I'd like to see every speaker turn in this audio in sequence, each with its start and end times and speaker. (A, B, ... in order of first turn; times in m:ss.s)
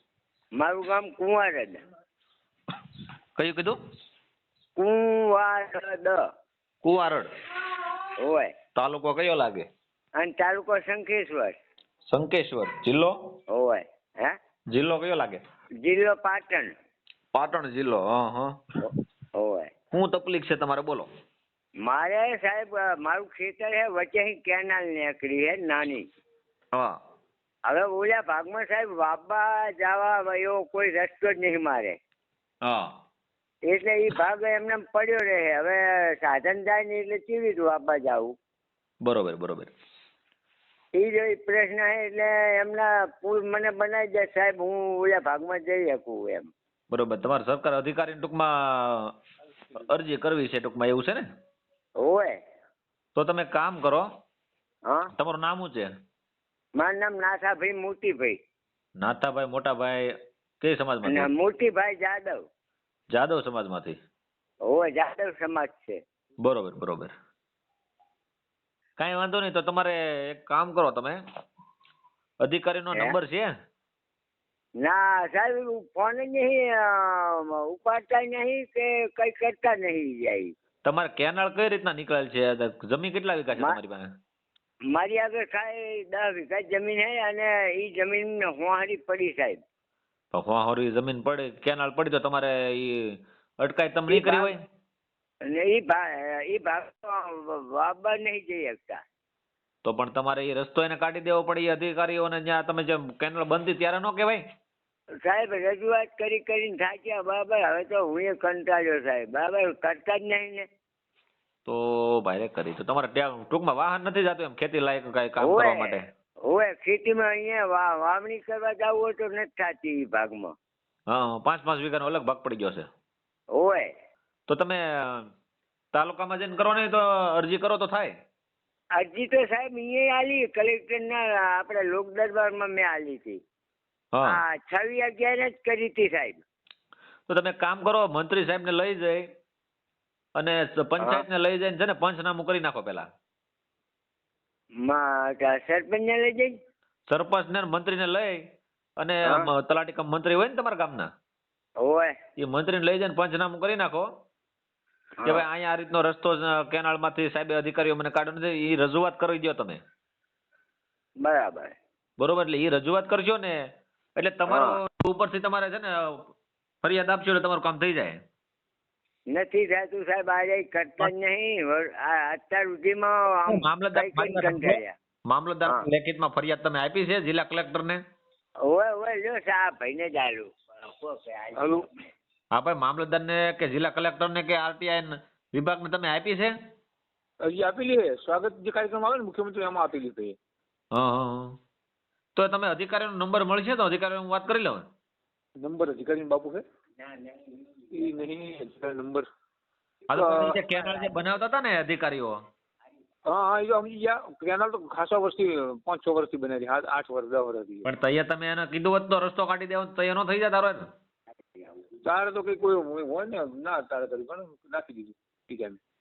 0:00.6-0:01.8 A
0:03.4-0:03.8 B
0:04.8-0:06.2 A
0:06.8-0:07.3 B
0:08.2-0:08.5 A
0:08.8-0:09.7 B
0:10.2-0:11.5 A
0:12.1-0:13.1 B
0:13.5-0:14.4 A
0:14.7-0:15.4 B
0:15.8-0:16.7 A
0:17.3-0:18.5 B
0:19.4-0:19.7 A
0:19.9-0:21.1 B
0:21.8-0:26.0 A
0:27.7-0:32.0 A
0:32.6-0:32.9 B
0:33.7-0:38.3 A
0:39.0-0:39.7 B
0:41.0-0:46.5 A
0:46.9-0:49.1 B
0:49.8-0:51.2 B
0:52.0-0:52.3 A
0:53.2-0:54.1 B
0:55.2-0:55.9 B
0:56.8-0:58.4 A
0:59.0-1:01.3 B
1:01.1-1:02.4 A
1:03.1-1:04.0 B
1:04.7-1:06.0 A
1:06.4-1:07.1 B
1:09.0-1:11.2 B
1:12.4-1:13.5 B
1:14.8-1:20.5 A
1:20.8-1:24.1 B
1:24.9-1:29.6 A
1:30.3-1:34.6 B
1:34.1-1:34.5 A
1:35.5-1:39.0 A
1:39.8-1:44.4 B
1:45.2-1:50.6 A
1:51.6-1:56.0 B
1:55.4-2:00.5 A
2:01.1-2:02.9 B
2:03.6-2:03.9 A
2:04.5-2:05.2 B
2:05.9-2:08.1 B
2:09.0-2:13.4 A
2:14.1-2:14.4 B
2:14.2-2:16.4 A
2:17.3-2:19.2 B
2:20.4-2:23.1 B
2:24.8-2:26.5 A
2:27.1-2:28.4 B
2:29.0-2:31.1 B
2:31.8-2:32.1 A
2:32.4-2:34.0 B
2:35.2-2:39.8 B
2:41.2-2:41.7 A
2:42.2-2:43.6 B
2:44.2-2:46.3 B
2:44.5-2:44.8 A
2:46.8-2:48.2 B
2:49.3-2:54.9 A
2:53.5-2:58.0 B
2:58.7-3:01.8 A
3:02.5-3:06.5 B
3:07.4-3:10.4 C
3:10.9-3:11.6 B
3:12.4-3:14.8 B
3:15.6-3:16.6 C
3:17.1-3:17.4 A
3:17.9-3:19.3 C
3:20.1-3:22.4 B
3:20.2-3:20.5 C
3:20.6-3:21.1 A
3:23.3-3:27.8 C
3:27.8-3:30.8 B
3:32.0-3:35.8 C